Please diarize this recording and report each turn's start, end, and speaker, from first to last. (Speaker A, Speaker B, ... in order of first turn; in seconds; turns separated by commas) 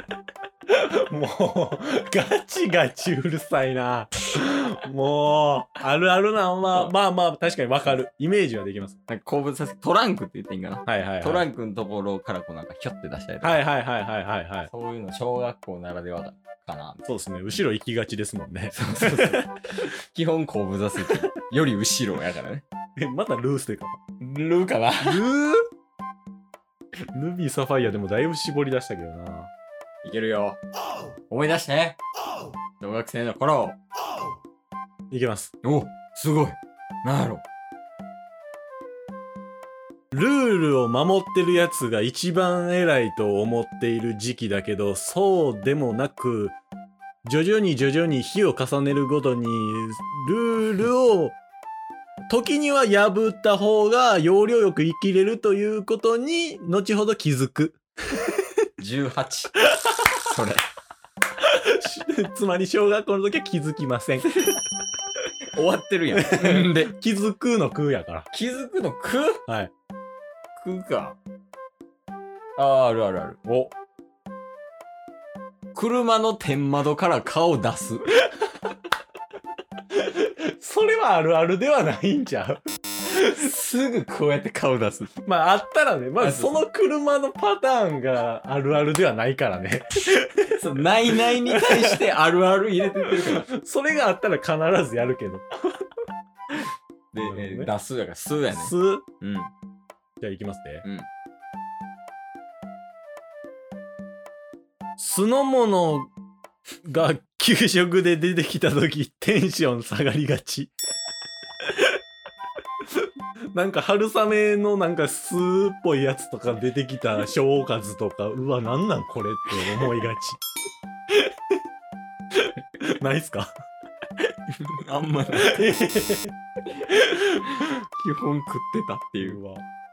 Speaker A: 0.7-9.0, Speaker B: 9.1-13.6, Speaker A: 10.8-11.4, Speaker A: 13.4-14.7, Speaker B: 14.7-17.1, Speaker A: 17.1-19.5, Speaker B: 18.7-22.6, Speaker A: 23.0-24.0, Speaker B: 24.2-25.2, Speaker A: 25.0-25.6, Speaker A: 27.1-29.5, Speaker B: 30.0-30.6, Speaker B: 31.3-32.0, Speaker B: 32.8-33.8, Speaker A: 35.1-35.5, Speaker B: 35.6-37.4, Speaker A: 40.1-46.6, Speaker A: 47.2-51.4, Speaker A: 52.3-58.4, Speaker B: 58.8-60.6, Speaker A: 61.4-64.3, Speaker B: 65.5-66.9, Speaker A: 66.1-68.3, Speaker B: 68.3-69.4, Speaker B: 70.5-71.2, Speaker B: 72.5-73.4, Speaker A: 73.4-73.7, Speaker B: 75.7-78.3, Speaker A: 79.9-82.6, Speaker B: 83.1-85.1, Speaker A: 85.2-90.5, Speaker B: 86.2-86.6, Speaker B: 90.4-93.5, Speaker A: 91.1-92.0, Speaker A: 93.0-95.8, Speaker B: 97.1-99.5, Speaker A: 97.2-97.7, Speaker A: 98.5-99.0, Speaker A: 100.2-100.8, Speaker A: 105.0-106.1, Speaker A: 106.8-110.7, Speaker A: 111.6-111.9, Speaker A: 113.5-120.4, Speaker A: 122.3-123.5, Speaker B: 124.2-125.7, Speaker A: 125.3-126.3, Speaker A: 126.9-127.7, Speaker B: 127.5-129.4, Speaker A: 129.2-129.6